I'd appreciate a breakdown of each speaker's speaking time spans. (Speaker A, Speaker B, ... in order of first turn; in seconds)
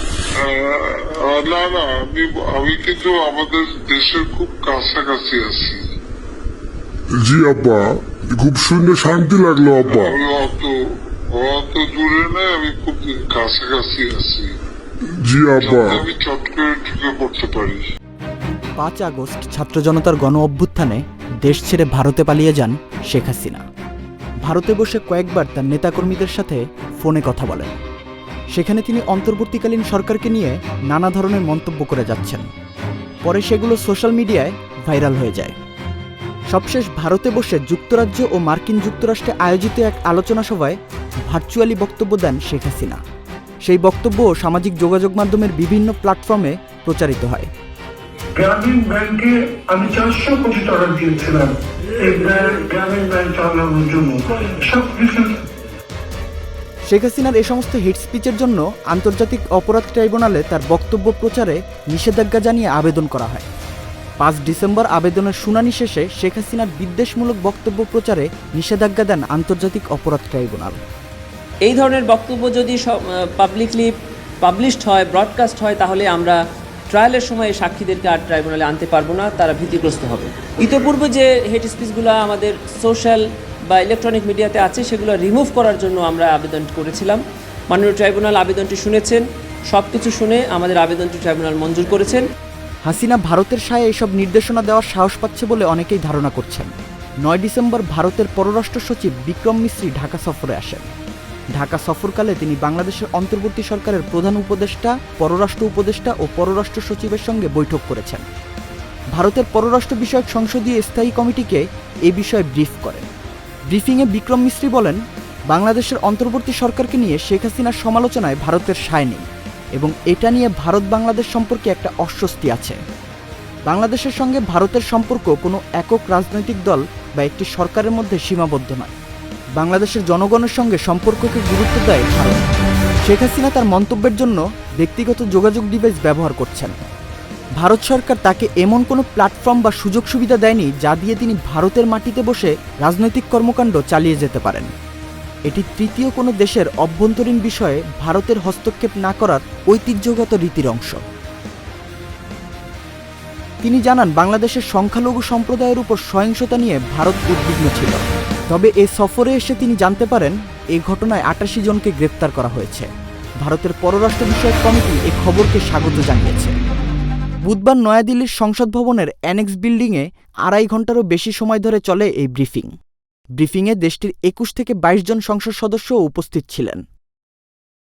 Speaker A: 0.4-5.8, 9.8-10.7, 11.3-14.5, 15.6-17.8
Speaker B: 7.2-10.2, 15.3-16.1
Speaker C: 18.8-23.6, 24.4-27.8, 28.5-32.5, 33.2-35.5, 36.5-43.0, 43.6-47.5, 56.9-63.5, 64.2-70.8, 92.9-96.7, 97.2-100.9, 101.6-108.2, 109.2-113.1, 113.7-115.0, 115.5-122.8, 123.7-129.0, 129.6-132.5, 133.1-136.9, 137.6-144.7, 145.5-151.0, 153.6-162.9, 163.4-166.6, 167.5-172.7, 173.4-176.8
Speaker D: 48.4-55.3
Speaker E: 71.7-76.4, 76.9-92.2